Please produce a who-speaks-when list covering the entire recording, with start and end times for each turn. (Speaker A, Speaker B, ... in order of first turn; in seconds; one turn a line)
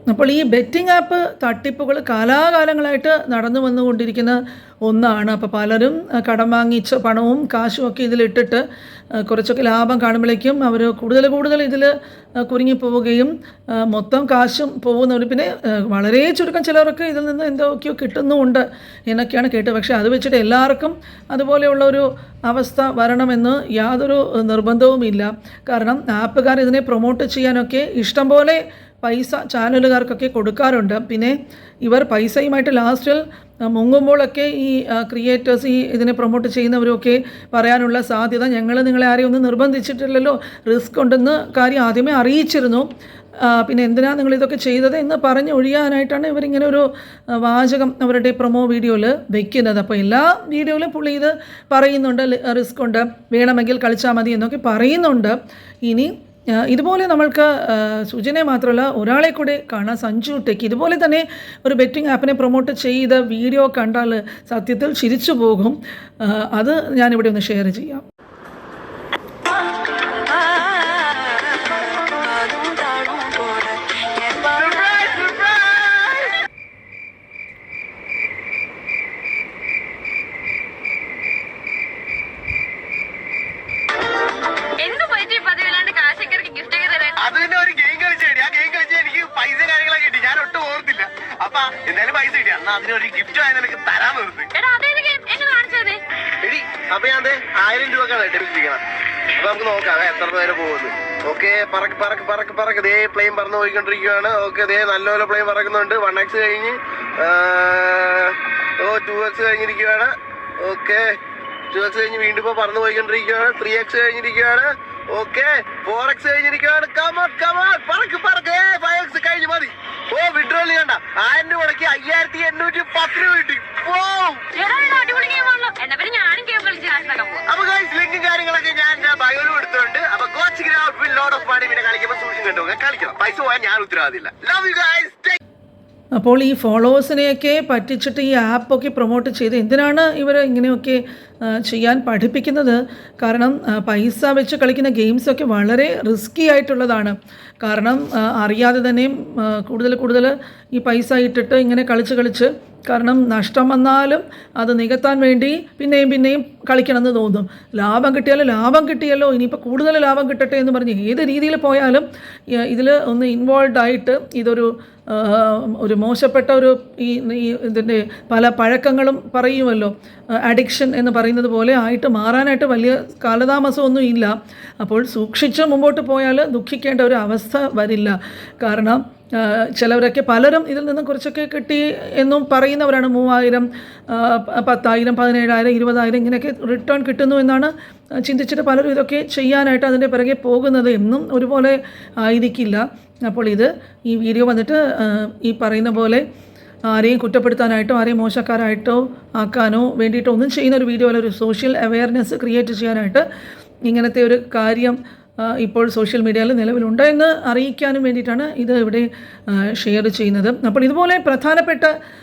Speaker A: 0.1-8.6
Speaker A: 9.2-42.9
Speaker A: 43.4-68.0
Speaker B: 71.9-74.4
Speaker C: 74.4-76.3
Speaker B: 84.8-87.3
Speaker C: 87.2-94.5
Speaker B: 94.5-96.0
Speaker C: 96.4-98.8
Speaker C: 99.4-111.2
Speaker C: 111.7-124.5
Speaker B: 124.5-127.5
Speaker C: 127.5-135.4
Speaker A: 136.1-196.2
Speaker A: 196.9-203.2
Speaker A: 203.8-211.9